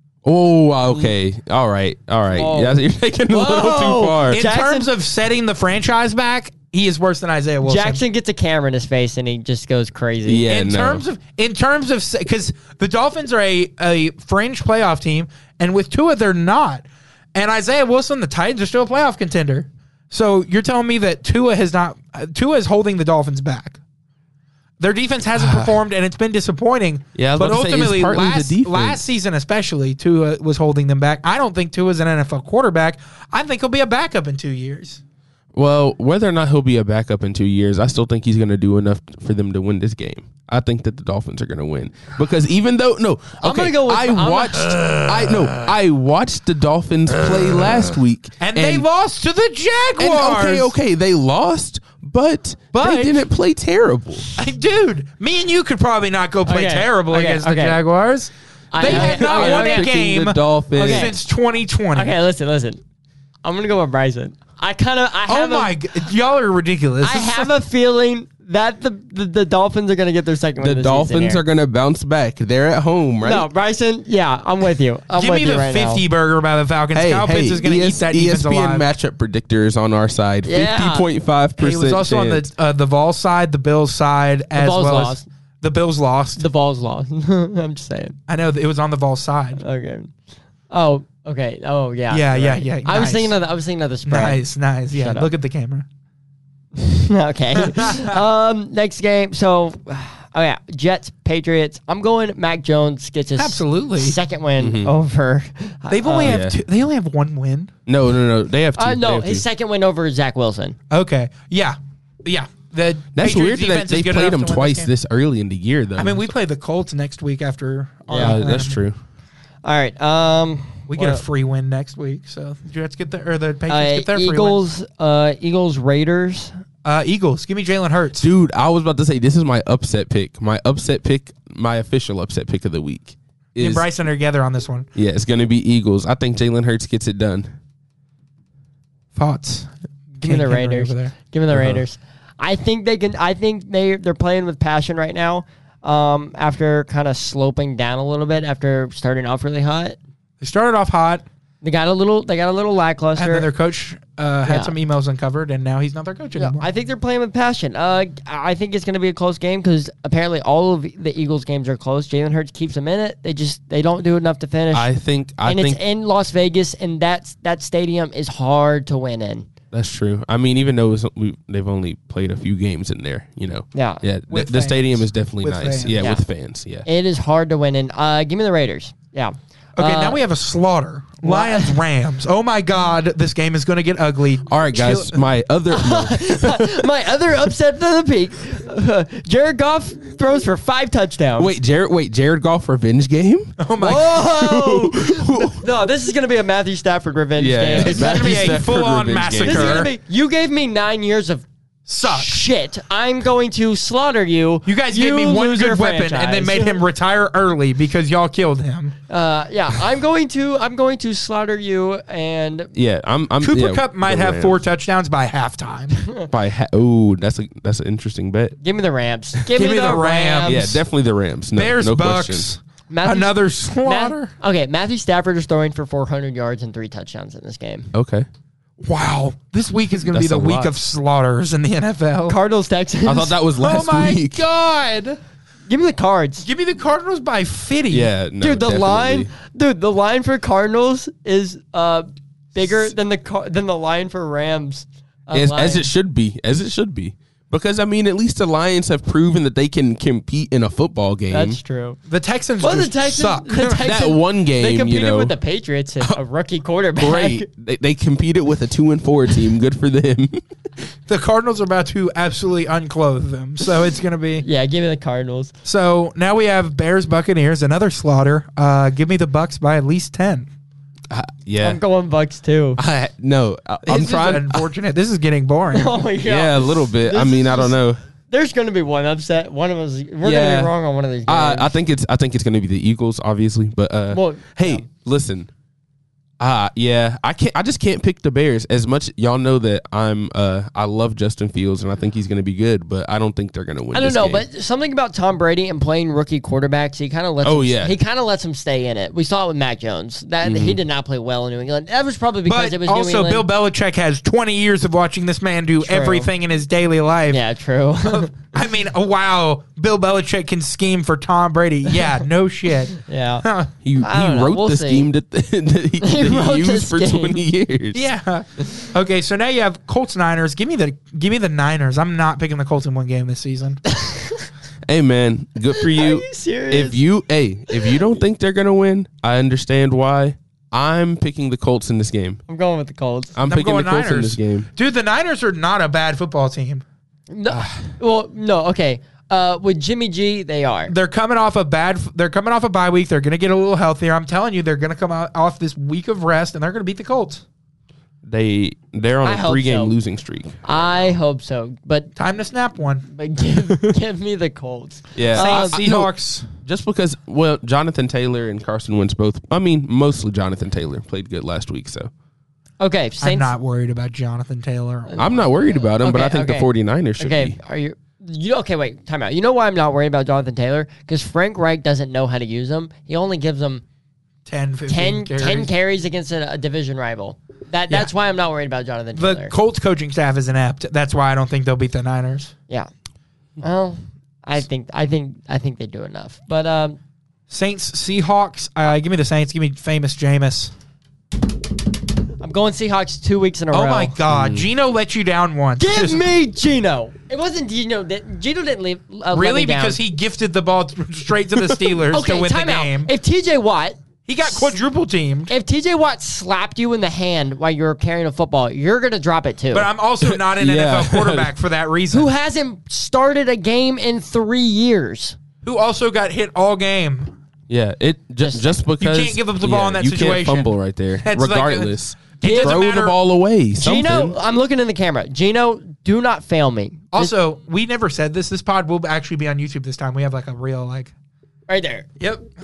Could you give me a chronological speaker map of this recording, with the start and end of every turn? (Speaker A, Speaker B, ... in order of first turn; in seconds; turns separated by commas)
Speaker A: 0.2-4.4, Speaker B: 2.3-4.9, Speaker C: 4.3-8.0, Speaker B: 7.6-10.4, Speaker A: 10.2-11.0, Speaker C: 10.5-23.8, Speaker C: 24.8-35.0, Speaker A: 25.4-25.7, Speaker A: 27.2-29.0, Speaker A: 35.5-48.9, Speaker B: 43.4-44.7, Speaker C: 48.4-50.7, Speaker A: 50.0-54.3, Speaker C: 52.7-53.2, Speaker C: 54.3-62.1, Speaker B: 56.5-57.8, Speaker B: 58.7-59.9, Speaker A: 58.8-61.2, Speaker B: 60.7-61.2, Speaker B: 61.9-62.8, Speaker B: 63.4-65.7, Speaker C: 65.3-67.5, Speaker B: 67.0-71.4, Speaker A: 70.6-73.5, Speaker B: 73.2-76.0, Speaker C: 75.1-78.9, Speaker A: 77.0-82.5, Speaker B: 80.5-81.1, Speaker C: 81.6-86.5, Speaker B: 84.5-85.3, Speaker B: 86.4-88.2, Speaker C: 88.3-89.6, Speaker B: 89.6-90.1, Speaker B: 90.7-94.4, Speaker C: 92.1-93.4, Speaker C: 94.1-95.9, Speaker B: 94.9-95.3, Speaker B: 96.8-106.4, Speaker C: 97.5-98.2, Speaker C: 103.4-104.2, Speaker A: 104.6-104.9, Speaker C: 105.9-107.7, Speaker A: 106.2-106.6, Speaker A: 107.9-109.5, Speaker B: 108.8-110.8, Speaker C: 110.9-114.9, Speaker A: 113.2-116.3, Speaker C: 116.0-118.8, Speaker B: 118.1-118.4, Speaker A: 118.2-119.0, Speaker B: 119.6-121.2, Speaker C: 120.9-124.6, Speaker B: 123.7-126.6, Speaker C: 126.8-128.3, Speaker A: 128.2-133.8, Speaker C: 133.6-134.9, Speaker A: 134.9-137.5, Speaker C: 139.1-139.7, Speaker B: 140.2-150.0, Speaker C: 140.2-141.1, Speaker A: 141.5-141.8, Speaker C: 150.4-151.2, Speaker B: 151.6-153.5, Speaker C: 153.2-156.7, Speaker B: 154.4-154.7, Speaker B: 156.4-164.9, Speaker A: 164.7-165.8, Speaker B: 165.4-169.5, Speaker A: 169.7-176.9, Speaker B: 173.7-174.0, Speaker C: 174.3-176.0, Speaker B: 176.8-180.2, Speaker C: 179.8-185.2, Speaker B: 181.2-181.8, Speaker A: 184.5-186.9, Speaker B: 185.7-191.5, Speaker A: 191.4-193.6, Speaker C: 193.6-194.2, Speaker B: 193.8-198.6, Speaker A: 194.2-195.7, Speaker A: 197.4-199.9, Speaker C: 197.7-199.9, Speaker B: 199.4-201.4, Speaker C: 201.9-202.4, Speaker B: 202.0-206.8, Speaker C: 204.7-208.9, Speaker B: 209.1-212.7, Speaker A: 212.7-214.6, Speaker C: 213.4-216.0, Speaker B: 216.0-216.3, Speaker A: 216.3-218.6, Speaker B: 218.6-220.7, Speaker C: 219.6-220.8, Speaker A: 220.4-222.5, Speaker C: 221.6-224.3, Speaker B: 222.9-227.9, Speaker A: 227.9-228.3, Speaker C: 228.8-232.4, Speaker A: 230.1-230.7, Speaker B: 232.3-233.4, Speaker A: 233.1-234.4, Speaker C: 233.6-235.2, Speaker B: 235.7-236.4, Speaker C: 236.4-238.1, Speaker A: 237.9-239.3, Speaker B: 238.4-245.9, Speaker A: 245.3-251.6, Speaker B: 251.3-252.0, Speaker C: 252.1-254.0, Speaker B: 252.6-257.4, Speaker A: 253.8-255.3, Speaker A: 256.9-260.4, Speaker C: 261.1-264.4, Speaker B: 264.4-265.5, Speaker C: 265.6-270.5, Speaker A: 271.1-271.8, Speaker B: 271.6-272.8, Speaker A: 272.8-274.7, Speaker C: 273.9-276.0, Speaker B: 275.7-281.8, Speaker A: 276.2-278.0, Speaker A: 280.2-280.7, Speaker A: 281.3-285.5, Speaker B: 284.1-284.9, Speaker A: 286.4-294.4, Speaker B: 293.9-303.4, Speaker A: 297.4-297.9, Speaker A: 300.4-300.8, Speaker C: 302.4-307.4, Speaker B: 305.8-306.3, Speaker B: 307.3-308.3, Speaker C: 308.0-313.7, Speaker B: 312.9-313.4, Speaker A: 313.8-318.0, Speaker B: 313.9-315.1, Speaker B: 316.0-317.4, Speaker C: 317.9-323.8, Speaker B: 323.9-324.5, Speaker A: 324.9-332.4, Speaker B: 325.7-327.0, Speaker B: 332.5-333.4, Speaker A: 333.4-334.7, Speaker C: 333.5-336.8, Speaker B: 337.3-340.9, Speaker A: 337.5-337.9, Speaker C: 340.9-347.4, Speaker A: 348.2-350.6, Speaker B: 349.2-349.9, Speaker B: 350.6-352.1, Speaker C: 352.2-353.1, Speaker B: 353.1-355.8, Speaker A: 355.2-362.1, Speaker C: 355.3-356.5, Speaker B: 362.8-363.5, Speaker C: 363.2-365.5, Speaker B: 365.1-373.8, Speaker A: 365.2-367.6, Speaker C: 374.4-375.7, Speaker B: 374.9-379.5, Speaker C: 379.1-382.5, Speaker B: 383.6-387.0, Speaker C: 387.5-390.7, Speaker B: 392.4-394.1, Speaker C: 393.7-396.3, Speaker A: 394.3-394.7, Speaker B: 395.8-400.0, Speaker C: 399.3-403.1, Speaker B: 402.1-404.7, Speaker C: 404.3-405.5, Speaker B: 405.5-409.9, Speaker C: 409.7-412.3, Speaker A: 410.2-411.5, Speaker B: 412.1-415.4, Speaker C: 415.6-417.4, Speaker A: 417.7-424.4, Speaker B: 418.4-418.8, Speaker C: 419.0-420.7, Speaker C: 421.2-423.2, Speaker B: 422.4-422.8, Speaker B: 423.8-427.3, Speaker C: 427.1-431.1, Speaker B: 431.7-432.1, Speaker C: 432.2-432.4